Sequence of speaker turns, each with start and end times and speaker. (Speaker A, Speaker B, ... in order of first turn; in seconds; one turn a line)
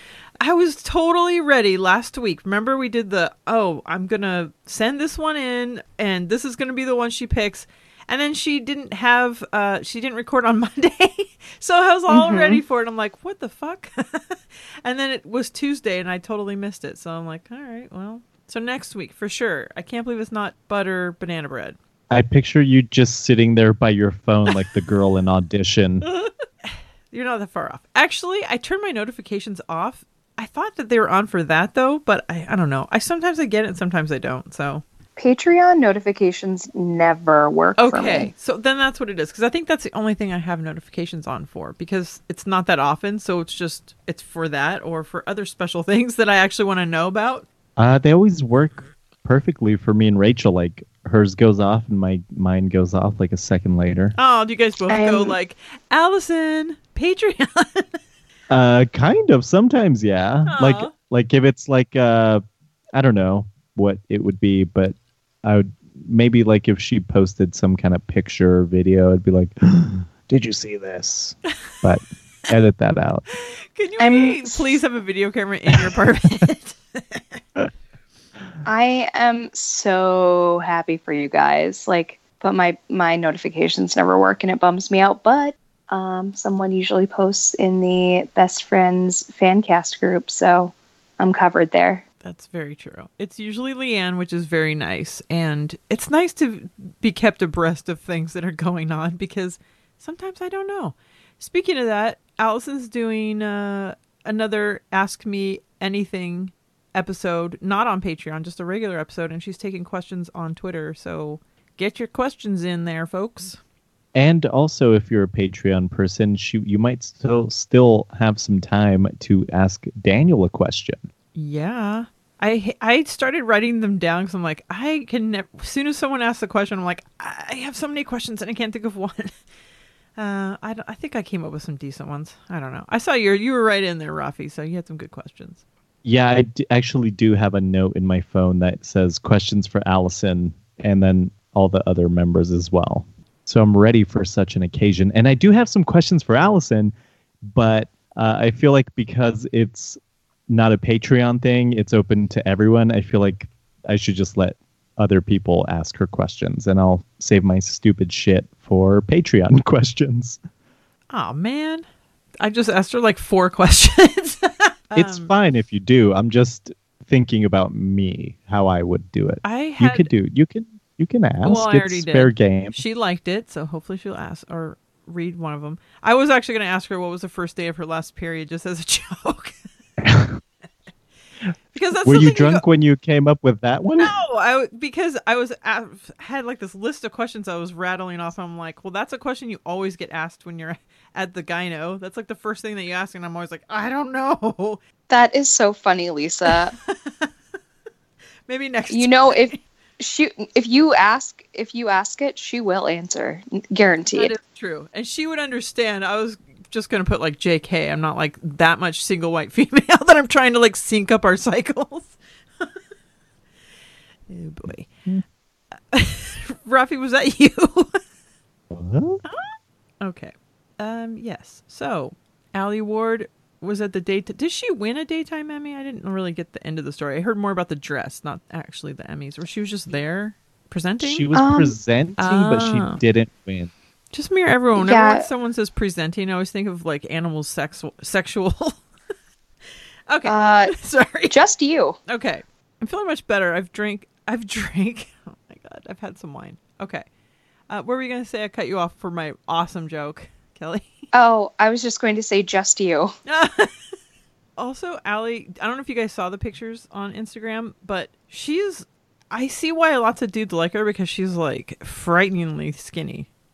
Speaker A: 0.4-21.8
Speaker B: 12.1-12.6
Speaker C: 22.1-26.1
Speaker A: 26.1-34.8
Speaker B: 35.2-38.3
Speaker A: 37.8-47.5
Speaker C: 47.8-54.2
Speaker A: 54.2-57.9
Speaker B: 54.9-55.4
Speaker C: 58.5-62.4
Speaker A: 60.5-60.9
Speaker C: 63.0-73.2
Speaker A: 73.8-77.4
Speaker B: 74.0-74.8
Speaker B: 78.7-92.0
Speaker A: 92.2-113.6
Speaker C: 114.2-121.0
Speaker A: 121.3-129.3
Speaker A: 130.2-135.6
Speaker C: 136.1-146.9
Speaker C: 147.5-150.0
Speaker C: 150.5-160.4
Speaker A: 161.1-161.8
Speaker A: 162.4-165.3
Speaker C: 165.0-172.8
Speaker A: 169.4-170.1
Speaker A: 171.4-179.6
Speaker C: 180.0-180.4
Speaker A: 181.7-182.6
Speaker C: 182.1-184.2
Speaker A: 184.0-194.8
Speaker B: 195.1-196.7
Speaker A: 196.8-197.3
Speaker A: 198.5-199.6
Speaker B: 198.9-204.4
Speaker A: 204.1-212.7
Speaker A: 214.3-214.9
Speaker A: 215.9-218.0
Speaker C: 218.7-219.2
Speaker A: 219.2-231.3
Speaker C: 231.0-233.7
Speaker B: 231.3-231.8
Speaker A: 232.2-233.0
Speaker A: 234.1-238.8
Speaker B: 234.8-235.2
Speaker A: 240.1-241.4
Speaker B: 240.2-240.7
Speaker B: 241.3-242.0
Speaker A: 242.1-247.0
Speaker A: 247.7-251.1
Speaker B: 251.1-253.1
Speaker A: 253.3-253.7
Speaker A: 254.6-263.3